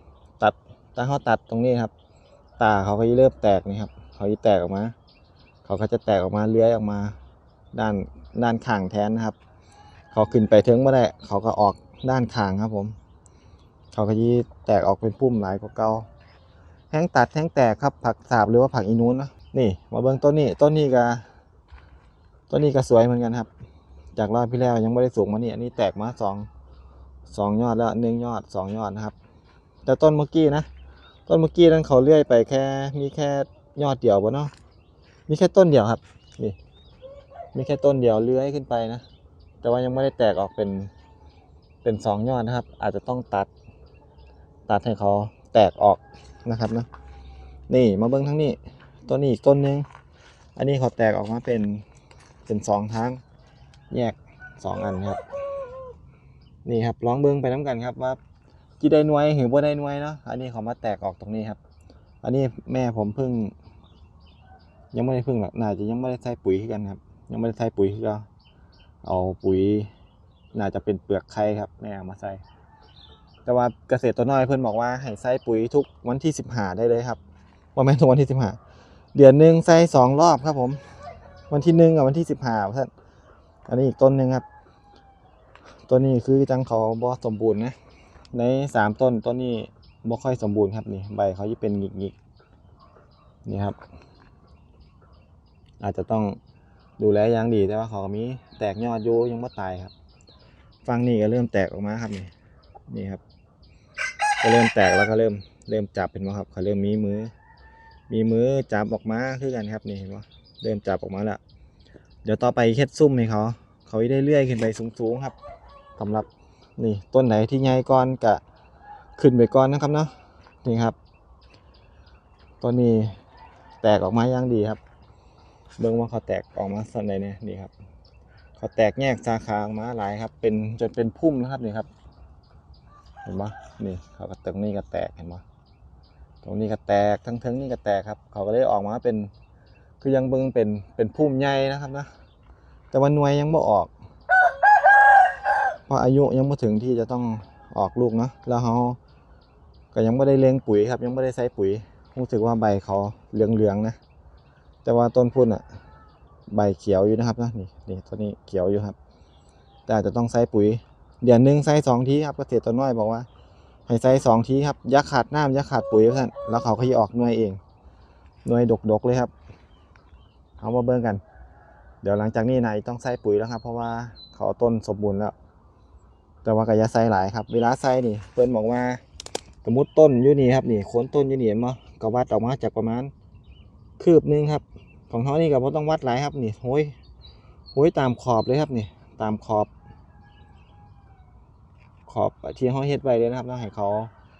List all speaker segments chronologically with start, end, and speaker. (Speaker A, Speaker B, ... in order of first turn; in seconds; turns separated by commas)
Speaker A: 0.4-1.9, Speaker A: 2.6-4.9, Speaker A: 5.6-7.1, Speaker A: 7.7-9.3, Speaker A: 10.1-12.9, Speaker A: 13.9-16.1, Speaker A: 16.9-21.2, Speaker A: 22.5-23.5, Speaker A: 24.1-26.5, Speaker A: 27.3-29.1, Speaker A: 29.9-30.7, Speaker A: 31.3-34.5, Speaker A: 35.3-36.6, Speaker A: 37.5-39.0, Speaker A: 39.6-40.9, Speaker A: 41.8-43.5, Speaker A: 44.7-46.9, Speaker A: 47.7-49.9, Speaker A: 50.5-51.8, Speaker A: 52.5-53.2, Speaker A: 53.9-55.2, Speaker A: 56.6-58.2, Speaker A: 58.8-61.6, Speaker A: 62.2-63.5, Speaker A: 64.9-68.2, Speaker A: 69.0-69.9, Speaker A: 70.5-72.4, Speaker A: 73.5-77.2, Speaker A: 77.7-78.6, Speaker A: 79.1-80.8, Speaker A: 81.5-82.9, Speaker A: 83.7-84.4, Speaker A: 85.9-87.7, Speaker A: 88.3-92.1, Speaker A: 93.4-93.8, Speaker A: 95.8-96.4, Speaker A: 97.0-99.9, Speaker A: 100.8-102.3, Speaker A: 102.9-103.2, Speaker A: 104.4-107.3, Speaker A: 108.1-111.4, Speaker A: 112.2-115.3, Speaker A: 116.0-118.4, Speaker A: 119.2-120.1, Speaker A: 120.6-121.0, Speaker A: 122.6-123.2, Speaker A: 123.8-124.8, Speaker A: 125.8-127.7, Speaker A: 128.6-131.9, Speaker A: 133.2-135.4, Speaker A: 136.4-139.3, Speaker A: 140.0-142.1, Speaker A: 142.9-143.9, Speaker A: 145.9-149.0, Speaker A: 149.9-154.0, Speaker A: 154.8-155.6, Speaker A: 156.5-158.9, Speaker A: 159.9-163.3, Speaker A: 163.9-167.6, Speaker A: 168.4-169.3, Speaker A: 170.6-171.2, Speaker A: 172.0-175.3, Speaker A: 176.4-179.0, Speaker A: 179.6-183.1, Speaker A: 184.0-186.9, Speaker A: 187.7-189.7, Speaker A: 192.1-194.1